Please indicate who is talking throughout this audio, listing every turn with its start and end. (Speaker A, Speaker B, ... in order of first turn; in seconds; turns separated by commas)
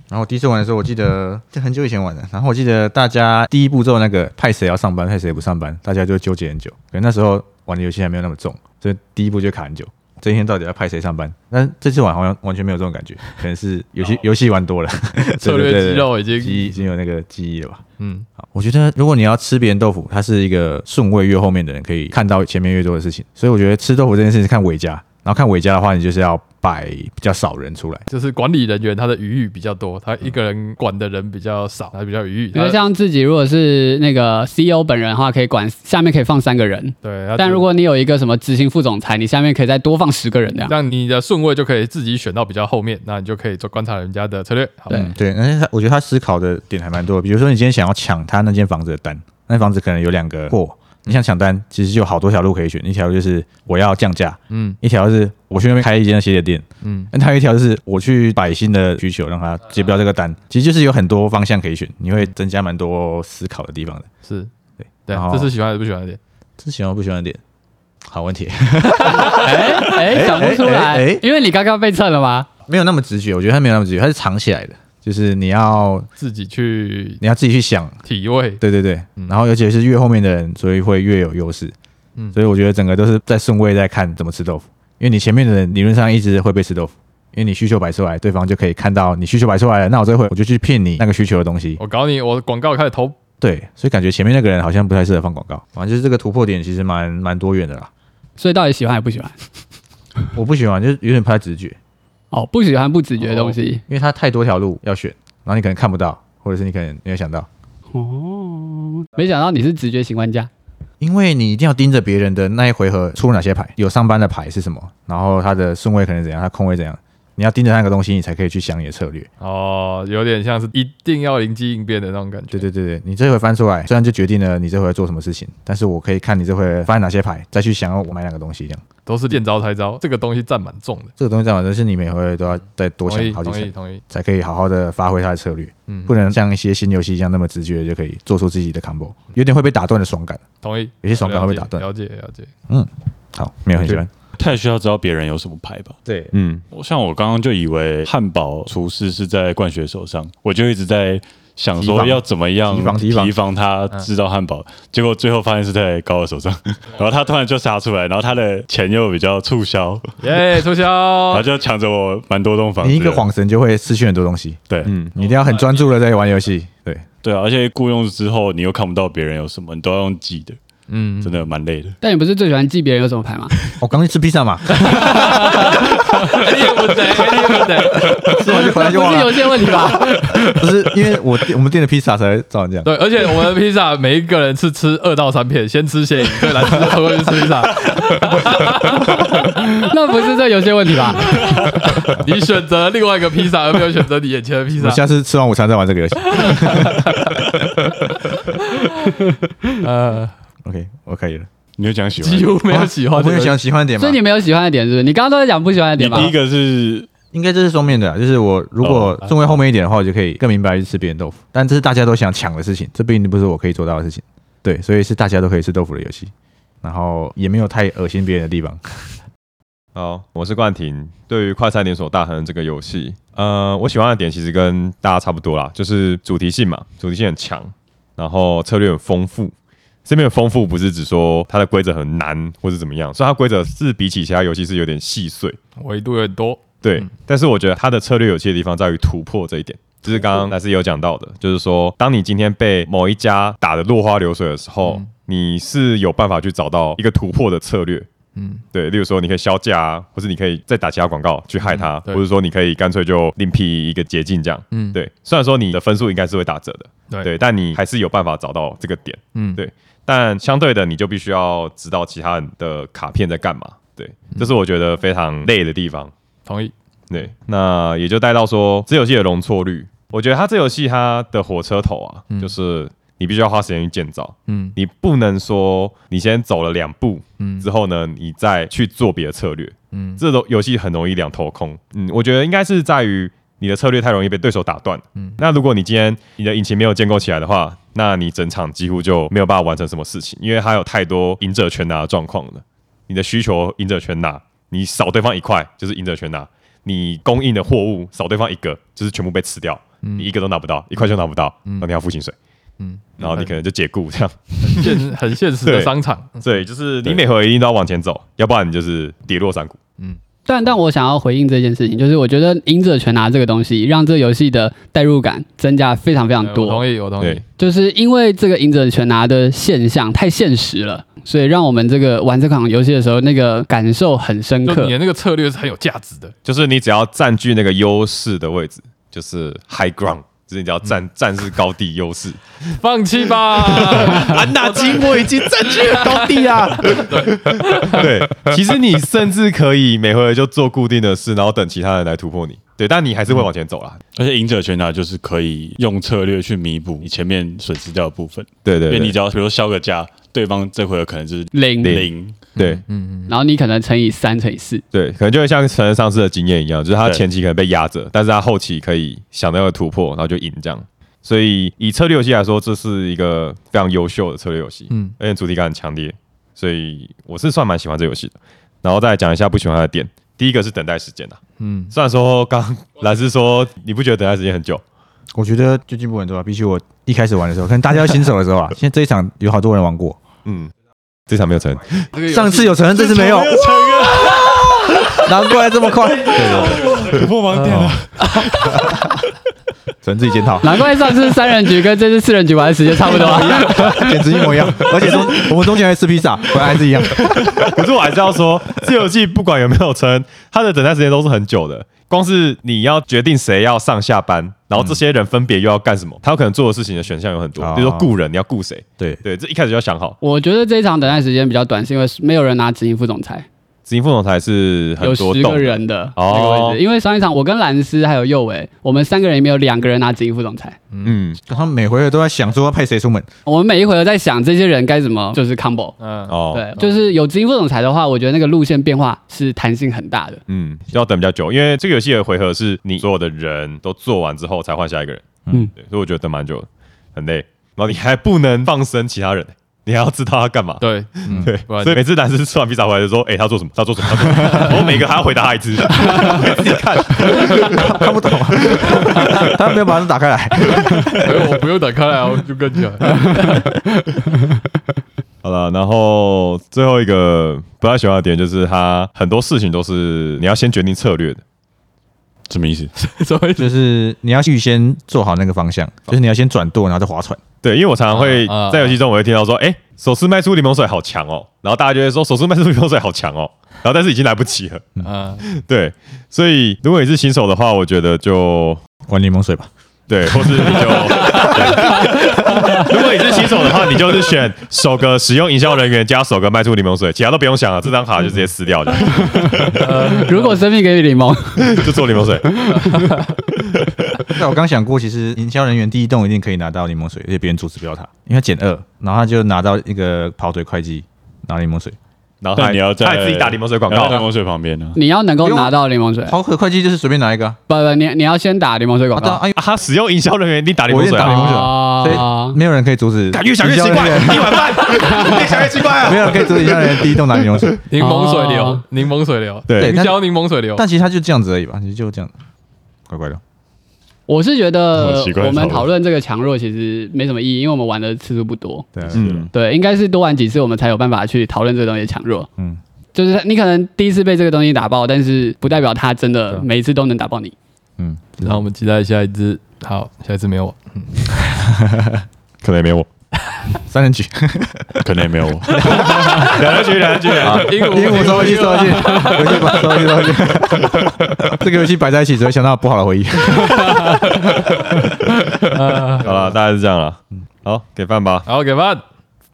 Speaker A: 0.1-17.8, Speaker B: 15.2-16.8, Speaker B: 18.0-18.3, Speaker A: 18.4-28.1, Speaker B: 28.1-32.8, Speaker C: 32.5-40.7, Speaker B: 37.0-37.6, Speaker B: 40.7-45.0, Speaker A: 44.9-64.1, Speaker B: 54.5-54.8, Speaker B: 56.8-57.1, Speaker B: 64.2-64.5, Speaker B: 65.1-66.2, Speaker A: 65.1-65.5, Speaker A: 66.6-67.4, Speaker A: 68.1-71.2, Speaker C: 69.2-72.5, Speaker A: 72.7-76.1, Speaker B: 76.2-77.2, Speaker A: 77.2-78.0, Speaker B: 78.1-78.6, Speaker A: 78.6-81.7, Speaker A: 82.3-91.8, Speaker B: 91.8-93.2, Speaker A: 93.4-97.9, Speaker C: 98.4-99.4, Speaker A: 100.3-101.8, Speaker C: 102.3-103.8, Speaker A: 103.9-107.5, Speaker C: 107.9-110.5, Speaker A: 111.0-119.3, Speaker B: 119.4-122.7, Speaker A: 122.5-128.8, Speaker B: 129.1-131.1, Speaker A: 131.2-140.4, Speaker B: 133.1-134.0, Speaker B: 135.9-136.2, Speaker B: 140.6-142.5, Speaker A: 141.0-141.8, Speaker A: 142.7-144.1, Speaker D: 144.4-146.0, Speaker A: 146.1-146.3, Speaker E: 146.3-146.6, Speaker D: 146.7-160.1, Speaker A: 151.8-153.3, Speaker B: 160.2-161.5, Speaker D: 161.3-163.2, Speaker A: 162.8-167.1, Speaker E: 164.8-165.2, Speaker D: 167.2-170.6, Speaker B: 170.9-171.3, Speaker D: 171.2-172.0, Speaker C: 172.0-173.5, Speaker A: 173.8-175.3, Speaker B: 174.8-178.8, Speaker C: 175.0-175.8, Speaker A: 178.0-182.9, Speaker C: 178.3-180.5, Speaker B: 179.8-180.3, Speaker B: 182.8-189.5, Speaker C: 189.4-191.7, Speaker B: 191.2-195.0, Speaker A: 194.8-198.3, Speaker B: 196.3-197.4, Speaker B: 198.7-199.1, Speaker B: 199.8-200.3, Speaker A: 200.6-201.5, Speaker D: 201.8-202.6, Speaker B: 202.2-203.6, Speaker A: 202.7-204.2, Speaker C: 204.0-206.3, Speaker D: 206.0-207.1, Speaker A: 207.3-216.3, Speaker D: 208.8-209.2, Speaker A: 216.8-219.1, Speaker E: 219.9-229.5, Speaker E: 230.1-235.6, Speaker B: 235.8-237.1, Speaker E: 236.8-248.1, Speaker B: 244.8-245.1, Speaker B: 248.3-248.6, Speaker E: 248.7-266.1, Speaker B: 251.6-252.2, Speaker B: 254.7-255.0, Speaker B: 259.3-259.6, Speaker B: 266.5-266.7, Speaker E: 267.1-302.4, Speaker B: 274.5-274.8, Speaker B: 277.4-277.7, Speaker B: 279.9-280.2, Speaker B: 285.1-285.4, Speaker B: 300.0-300.3, Speaker B: 302.8-303.6, Speaker E: 303.2-305.0, Speaker B: 304.6-306.5, Speaker E: 305.6-309.8, Speaker C: 310.5-316.9, Speaker B: 316.4-317.4, Speaker C: 317.6-324.9, Speaker B: 324.6-326.4, Speaker E: 326.4-332.4, Speaker B: 332.8-338.1, Speaker E: 333.6-344.0, Speaker D: 344.2-352.5, Speaker E: 348.6-349.1, Speaker C: 351.5-351.9, Speaker E: 351.8-352.8, Speaker B: 352.6-353.3, Speaker C: 353.3-354.8, Speaker E: 354.9-374.8, Speaker B: 364.9-365.2, Speaker B: 371.6-371.9, Speaker A: 375.3-380.2, Speaker E: 380.4-380.7, Speaker E: 381.3-382.1, Speaker B: 382.1-382.8, Speaker A: 382.3-383.8, Speaker D: 382.9-385.2, Speaker A: 385.1-388.0, Speaker D: 386.3-388.7, Speaker B: 388.4-388.8, Speaker A: 390.0-390.8, Speaker C: 390.6-394.2, Speaker A: 393.1-397.7, Speaker E: 397.6-410.2, Speaker A: 407.6-408.1, Speaker C: 410.2-413.5, Speaker E: 413.9-416.8, Speaker C: 415.0-420.8, Speaker B: 420.9-421.2, Speaker E: 421.0-421.4, Speaker A: 421.4-423.3, Speaker C: 423.5-426.0, Speaker B: 426.0-426.9, Speaker E: 426.3-426.7, Speaker C: 426.5-430.4, Speaker E: 430.5-448.1, Speaker B: 440.8-442.0, Speaker A: 446.0-451.6, Speaker E: 448.6-449.5, Speaker B: 451.1-453.8, Speaker E: 455.4-461.4, Speaker D: 462.5-462.9, Speaker B: 463.0-463.7, Speaker A: 463.6-467.4, Speaker E: 467.6-478.8, Speaker B: 468.1-469.0, Speaker B: 475.0-475.4, Speaker A: 479.1-479.7, Speaker E: 480.1-489.9, Speaker A: 480.3-482.6, Speaker C: 482.0-482.8, Speaker C: 489.3-491.8, Speaker B: 489.8-490.7, Speaker E: 491.6-492.7, Speaker C: 492.6-493.2, Speaker B: 492.8-493.3, Speaker E: 493.6-494.3, Speaker A: 494.4-502.0, Speaker E: 502.4-504.2, Speaker D: 502.6-505.0, Speaker C: 504.9-506.4, Speaker A: 505.4-507.6, Speaker C: 507.7-509.4, Speaker A: 509.1-509.6, Speaker E: 509.5-511.7, Speaker A: 510.9-514.9, Speaker C: 511.2-512.6, Speaker E: 513.3-517.8, Speaker C: 515.1-515.3, Speaker A: 515.4-517.8, Speaker B: 517.9-520.8, Speaker C: 518.0-518.8, Speaker E: 519.7-520.0, Speaker A: 519.8-520.2, Speaker A: 520.8-522.3, Speaker A: 523.1-523.4, Speaker C: 524.3-528.9, Speaker D: 525.0-525.9, Speaker A: 529.0-529.5, Speaker E: 529.1-529.5, Speaker C: 529.5-532.5, Speaker C: 533.1-537.5, Speaker A: 538.0-538.6, Speaker B: 538.4-541.6, Speaker A: 541.7-542.2, Speaker E: 542.6-543.1, Speaker A: 543.9-545.0, Speaker D: 545.0-546.0, Speaker B: 545.7-550.3, Speaker A: 545.8-546.5, Speaker E: 545.9-548.4, Speaker A: 547.4-555.0, Speaker B: 553.6-554.2, Speaker B: 555.7-556.6, Speaker E: 555.7-558.5, Speaker B: 558.5-559.0